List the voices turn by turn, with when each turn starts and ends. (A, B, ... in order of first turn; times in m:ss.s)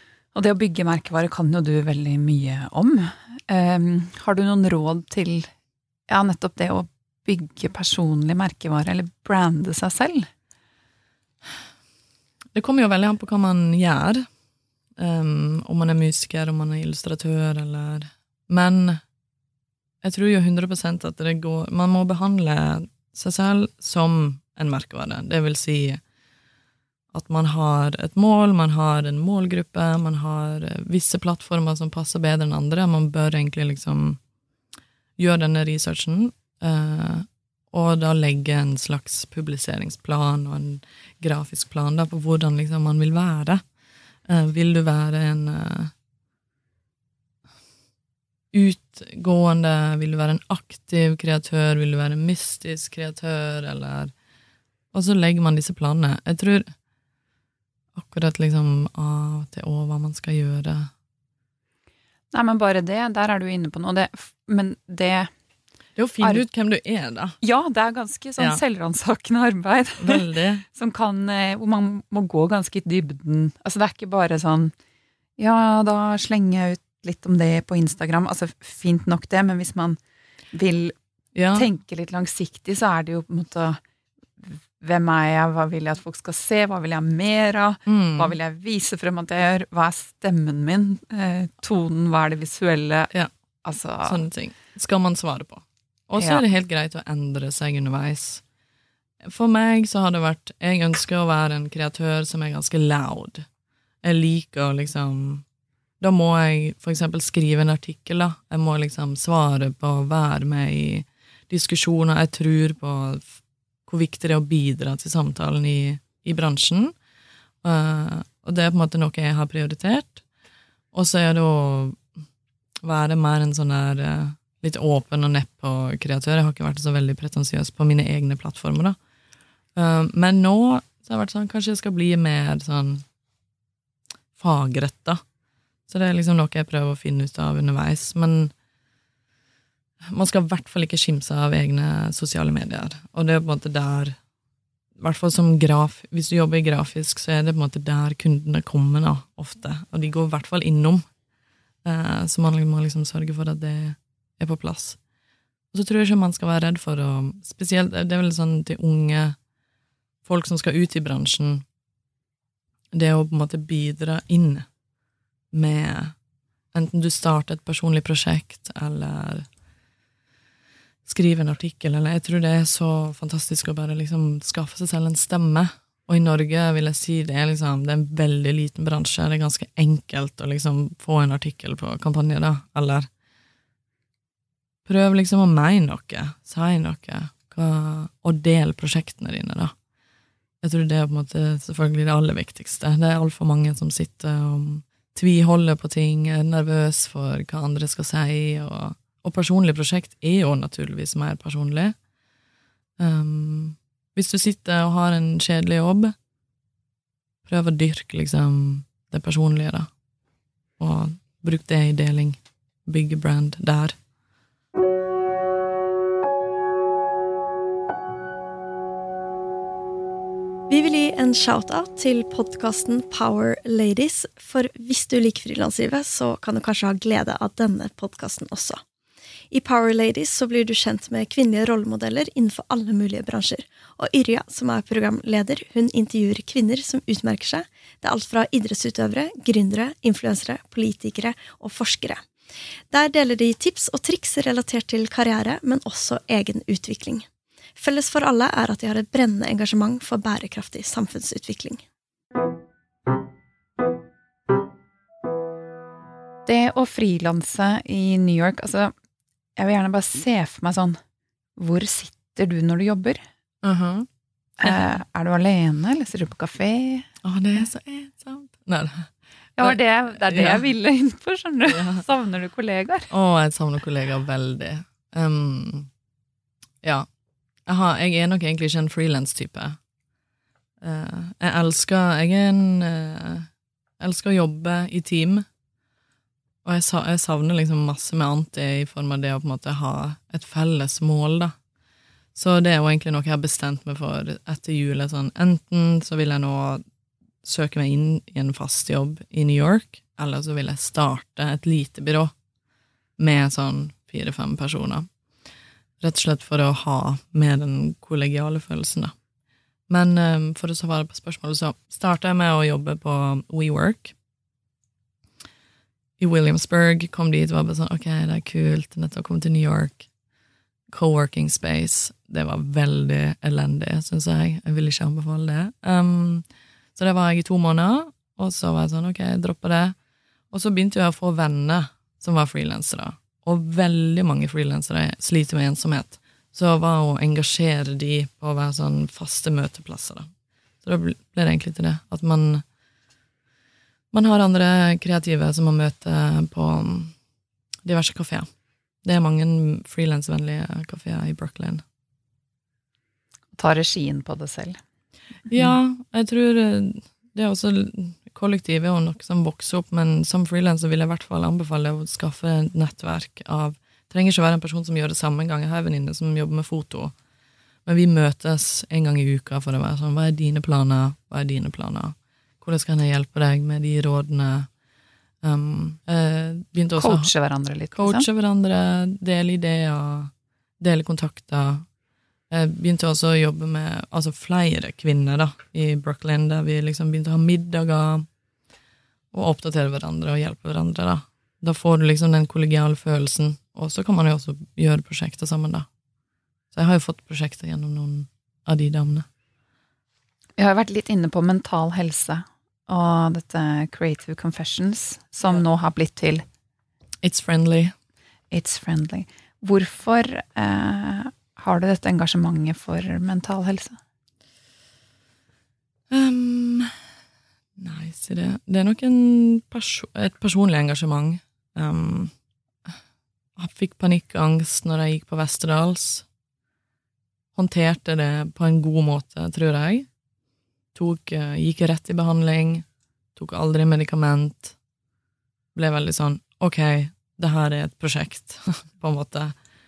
0:00.3-0:05.5 A
0:06.1-0:10.3 A
0:12.5-0:14.2 B
0:15.0-0:19.0 B
0:20.0-0:26.0 B
0:27.1-0:34.2 B
0:35.2-0:43.6 B
0:44.3-0:45.9 B
0:48.5-0:54.1 B
0:54.9-0:56.7 B
0:57.9-1:00.9 B
1:02.3-1:05.3 A
1:06.0-1:07.4 B
1:07.4-1:14.7 A
1:10.0-1:10.6 B
1:15.4-1:20.0 A
1:20.5-1:21.0 A
1:21.3-1:21.7 B
1:21.5-1:23.8 A
1:24.4-1:33.1 A
1:27.8-1:28.4 B
1:33.6-1:34.2 A
1:34.0-1:38.4 B
1:39.2-1:43.5 B
1:44.0-1:45.4 B
1:46.0-1:53.3 B
1:53.9-1:56.9 B
1:57.6-2:00.2 B
2:00.9-2:02.0 B
2:02.8-2:09.0 B
2:09.8-2:13.0 B
2:14.4-2:15.2 B
2:15.9-2:18.5 B
2:20.1-2:24.2 B
2:25.0-2:31.0 B
2:31.8-2:35.0 B
2:35.7-2:39.4 B
2:40.2-2:41.6 B
2:42.9-2:44.7 B
2:45.5-2:46.1 B
2:46.7-2:49.5 B
2:51.0-3:03.1 B
3:04.8-3:09.7 B
3:10.6-3:21.9 B
3:23.0-3:26.1 B
3:27.4-3:29.9 B
3:30.8-3:34.0 B
3:40.7-3:48.8 C
3:49.5-4:02.2 C
4:02.9-4:11.8 C
4:16.4-4:18.9 A
4:19.6-4:21.0 A
4:21.6-4:23.2 A
4:23.6-4:24.1 B
4:24.6-4:27.1 A
4:24.6-4:24.9 B
4:27.2-4:30.6 B
4:29.6-4:33.1 A
4:31.6-4:32.0 B
4:33.1-4:35.9 B
4:37.7-4:39.8 B
4:40.8-4:45.4 B
4:46.6-4:51.5 B
4:52.3-4:56.8 B
4:57.4-5:02.3 B
5:03.2-5:05.1 B
5:06.0-5:09.1 B
5:09.9-5:14.1 B
5:16.2-5:20.1 B
5:20.9-5:29.9 B
5:30.5-5:40.3 B
5:40.8-5:42.6 B
5:44.1-5:47.1 B
5:47.8-5:48.5 B
5:49.0-5:51.8 B
5:53.6-5:54.8 A
5:55.5-6:07.1 B
6:07.8-6:14.7 B
6:15.4-6:17.3 B
6:17.0-6:18.2 A
6:17.9-6:21.8 B
6:22.5-6:28.3 B
6:29.3-6:35.9 B
6:36.7-6:39.3 B
6:40.6-6:46.4 A
6:47.2-6:47.9 B
6:48.5-6:54.0 A
6:56.1-6:56.9 B
6:57.8-7:02.3 B
7:03.6-7:06.2 B
7:07.5-7:10.1 B
7:10.9-7:12.8 B
7:13.4-7:14.8 B
7:15.7-7:19.6 B